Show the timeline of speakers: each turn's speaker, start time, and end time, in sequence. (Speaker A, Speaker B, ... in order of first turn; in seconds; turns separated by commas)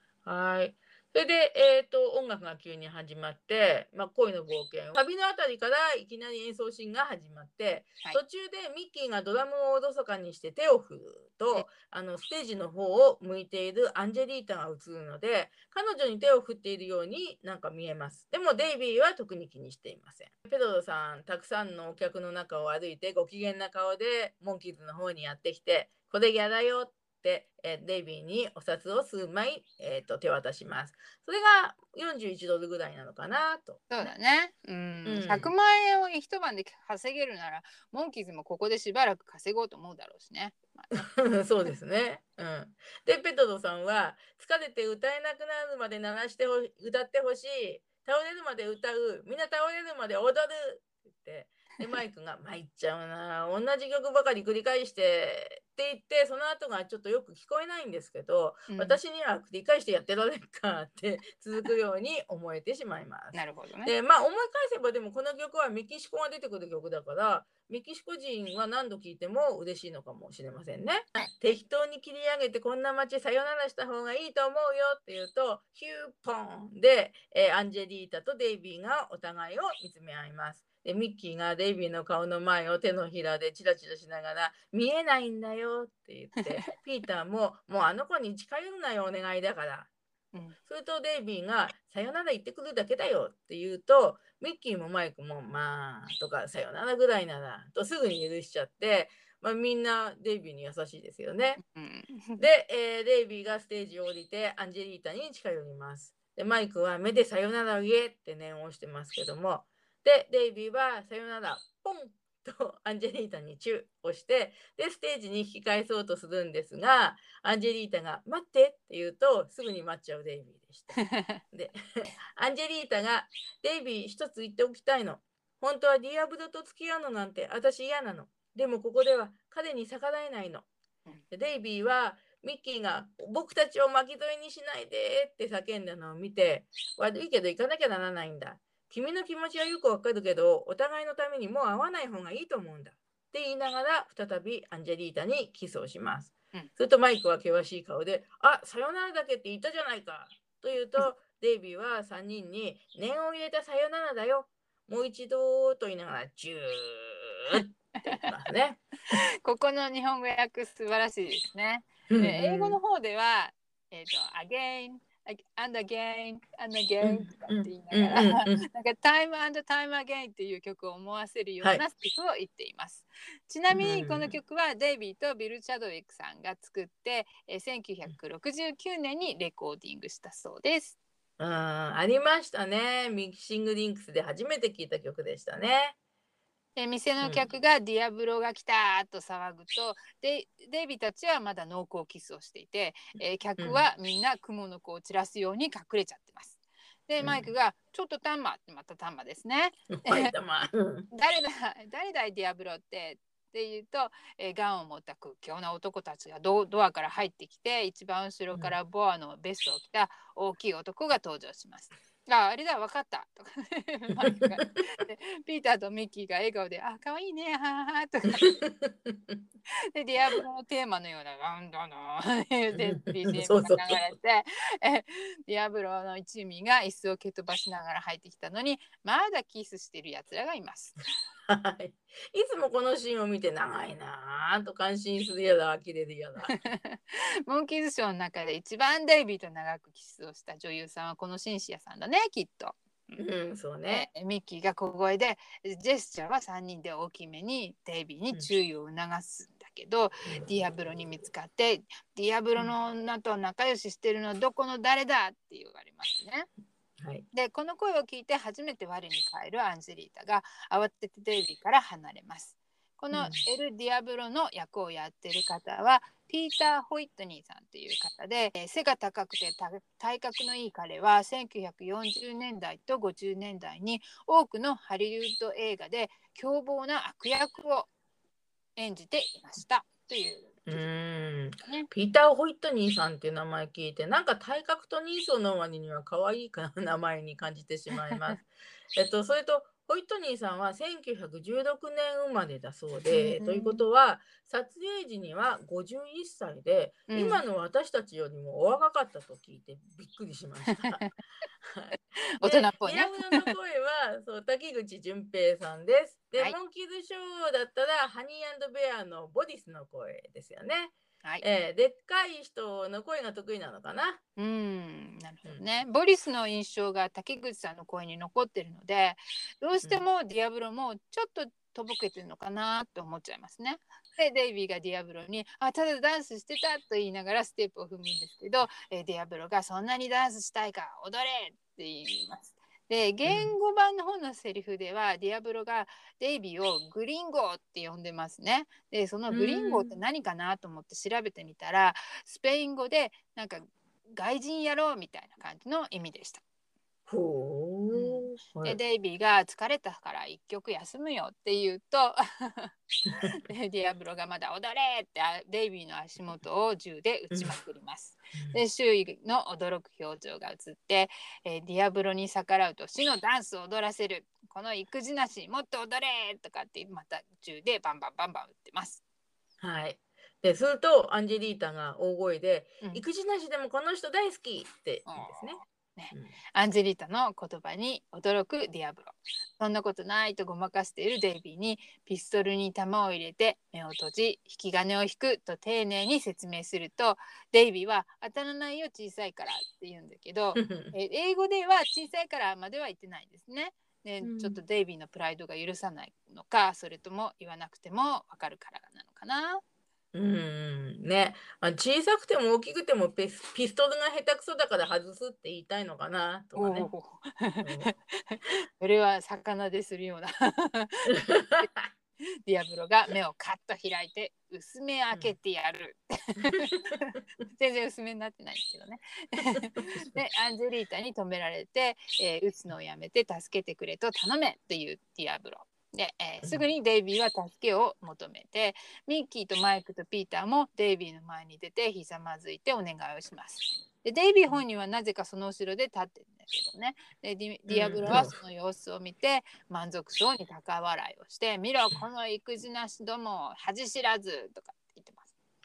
Speaker A: 0.2-33.9, Speaker B: 33.9-41.1, Speaker A: 35.1-35.5, Speaker A: 41.0-89.9, Speaker B: 58.7-59.0, Speaker B: 63.3-63.9, Speaker B: 86.4-86.7, Speaker A: 90.7-101.6, Speaker B: 101.6-102.4, Speaker A: 102.4-121.0, Speaker B: 121.0-121.4, Speaker A: 121.5-130.7, Speaker A: 131.3-158.9, Speaker B: 159.1-181.0, Speaker A: 162.1-162.8, Speaker A: 167.0-168.6, Speaker A: 173.7-174.3, Speaker A: 181.4-185.9, Speaker B: 186.8-200.3, Speaker A: 193.6-193.8, Speaker A: 197.2-197.5, Speaker A: 199.9-201.1, Speaker B: 201.1-218.6, Speaker A: 218.4-219.4, Speaker B: 219.9-231.0, Speaker A: 222.7-224.0, Speaker A: 231.5-236.6, Speaker B: 236.5-243.2, Speaker A: 243.2-244.1, Speaker B: 243.9-256.5, Speaker A: 257.0-257.2, Speaker B: 257.3-277.9, Speaker A: 263.1-263.4, Speaker B: 278.8-280.9, Speaker A: 280.7-301.1, Speaker B: 281.6-281.9, Speaker B: 288.0-288.3, Speaker B: 293.1-293.9, Speaker B: 297.1-297.4, Speaker B: 300.7-301.2, Speaker A: 301.6-314.2, Speaker B: 302.4-303.5, Speaker B: 314.4-346.4, Speaker A: 333.3-333.6, Speaker A: 339.3-339.9, Speaker A: 347.1-348.8, Speaker B: 347.9-369.0, Speaker A: 369.6-375.6, Speaker B: 375.1-399.6, Speaker A: 390.6-390.9, Speaker A: 394.2-394.6, Speaker A: 400.1-406.9, Speaker B: 406.6-411.7, Speaker A: 407.6-407.9, Speaker A: 411.1-411.9, Speaker B: 412.5-445.3, Speaker A: 419.8-420.2, Speaker A: 437.7-438.4